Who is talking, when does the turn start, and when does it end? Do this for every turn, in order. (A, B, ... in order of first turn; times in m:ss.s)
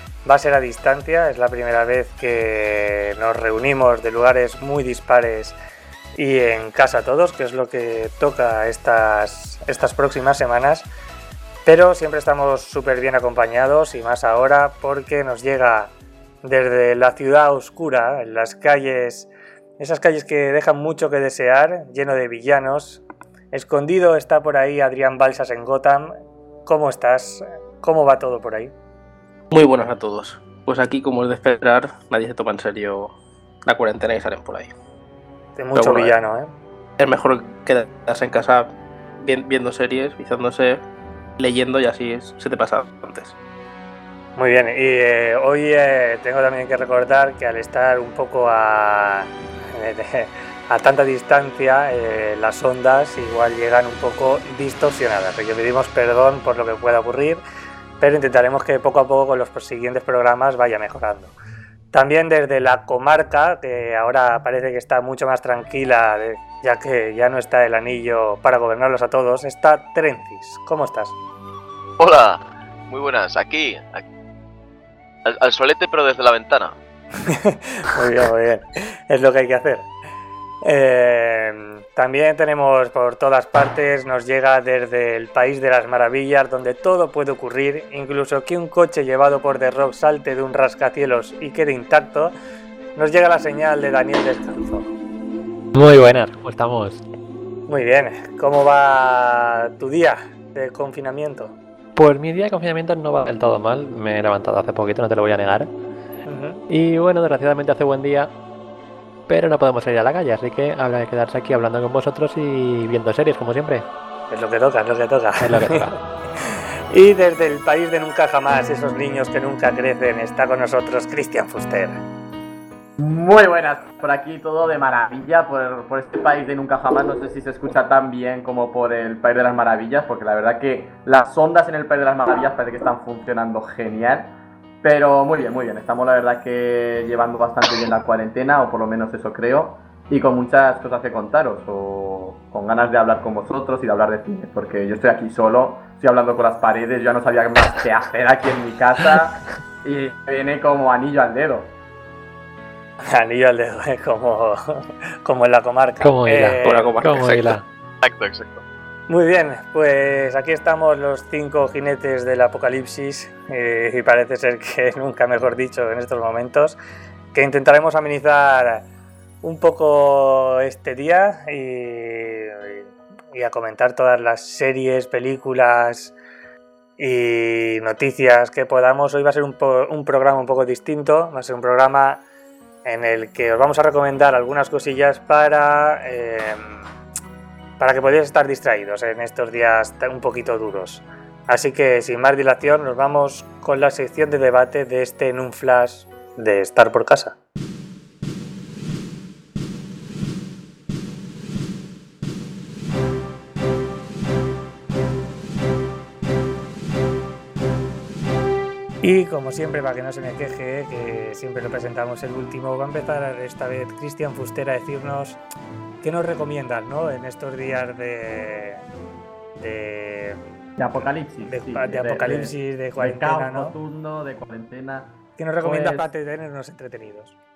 0:00.2-0:05.6 A
0:06.1-0:10.8 A
0:11.6-0:15.9 A
0:16.4-0:26.1 A
0:26.6-0:28.7 A
0:29.5-0:33.1 B
0:33.6-0:34.7 B
0:35.6-0:36.5 A
0:35.7-0:36.1 B
0:37.0-0:40.8 B
0:41.4-0:43.4 B
0:44.4-0:57.4 A
0:58.0-1:01.3 A
1:01.9-1:11.1 A
1:12.0-1:14.0 C
1:15.2-1:16.8 C
1:17.3-1:19.9 A
1:20.6-1:32.3 A
1:33.0-1:34.9 A
1:35.7-1:37.0 D
1:37.7-1:41.5 A
1:42.0-1:45.7 D
1:46.2-1:46.6 A
1:46.7-1:48.3 D
1:49.3-1:53.8 D
1:54.3-1:55.9 A
1:55.4-1:56.0 D
1:56.4-2:02.0 A
2:03.0-2:31.7 E
2:33.0-2:37.1 A
2:36.0-2:37.6 D
2:36.6-2:37.6 B
2:38.0-2:38.6 C
2:39.1-2:46.8 A
2:47.3-2:48.8 A
2:49.4-2:56.1 A
2:57.0-3:02.2 A
3:02.8-3:06.8 A
3:07.8-3:17.4 A
3:29.0-3:35.4 A
3:36.0-3:38.8 A
3:39.6-3:40.4 A
3:40.8-3:46.1 E
3:41.4-3:43.8 A
3:45.4-3:47.3 A